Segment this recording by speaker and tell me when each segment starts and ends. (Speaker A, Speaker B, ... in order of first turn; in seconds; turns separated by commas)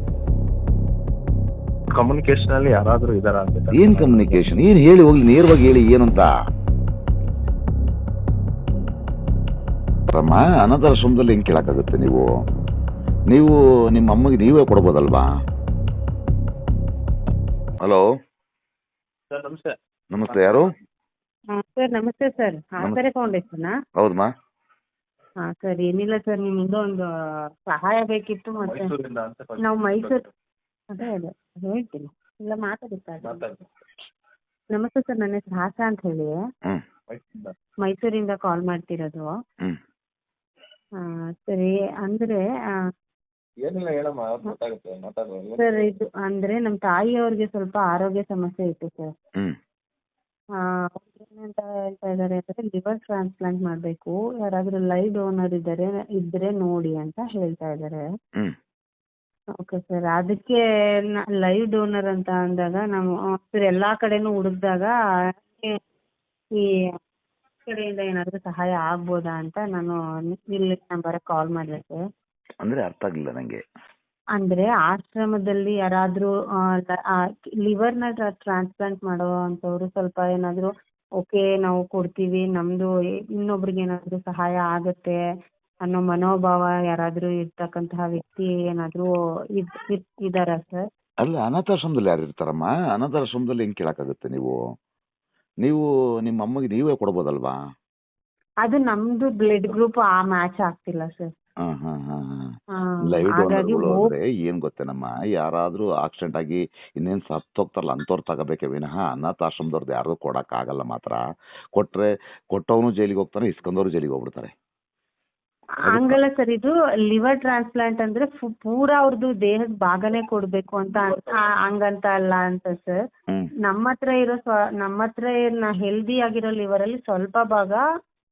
Speaker A: 1.9-4.5, Speaker B: 3.7-6.3, Speaker B: 10.1-12.3, Speaker B: 13.3-15.3, Speaker A: 19.3-19.7, Speaker B: 20.1-20.7, Speaker A: 20.3-20.7, Speaker C: 21.5-23.7, Speaker B: 24.0-24.3, Speaker C: 25.4-27.1, Speaker C: 27.7-28.9, Speaker A: 28.6-30.3, Speaker C: 29.6-30.2, Speaker C: 30.9-33.4, Speaker A: 33.2-33.7, Speaker C: 34.7-36.4, Speaker A: 37.1-37.5, Speaker C: 37.8-39.3, Speaker C: 41.0-42.4, Speaker A: 43.6-45.9, Speaker C: 45.6-49.1, Speaker C: 50.9-58.0, Speaker C: 59.6-60.6, Speaker C: 61.3-64.9, Speaker C: 65.5-65.8, Speaker C: 66.6-66.9, Speaker C: 67.7-72.0, Speaker B: 72.6-73.6, Speaker C: 74.3-80.7, Speaker C: 81.2-85.1, Speaker C: 85.8-90.8, Speaker B: 91.2-94.5, Speaker B: 95.6-97.5, Speaker C: 98.6-101.3, Speaker B: 101.6-102.5, Speaker C: 102.8-104.1, Speaker B: 103.1-111.2, Speaker B: 111.8-114.5, Speaker B: 115.8-116.2, Speaker C: 115.8-123.0, Speaker C: 123.6-127.8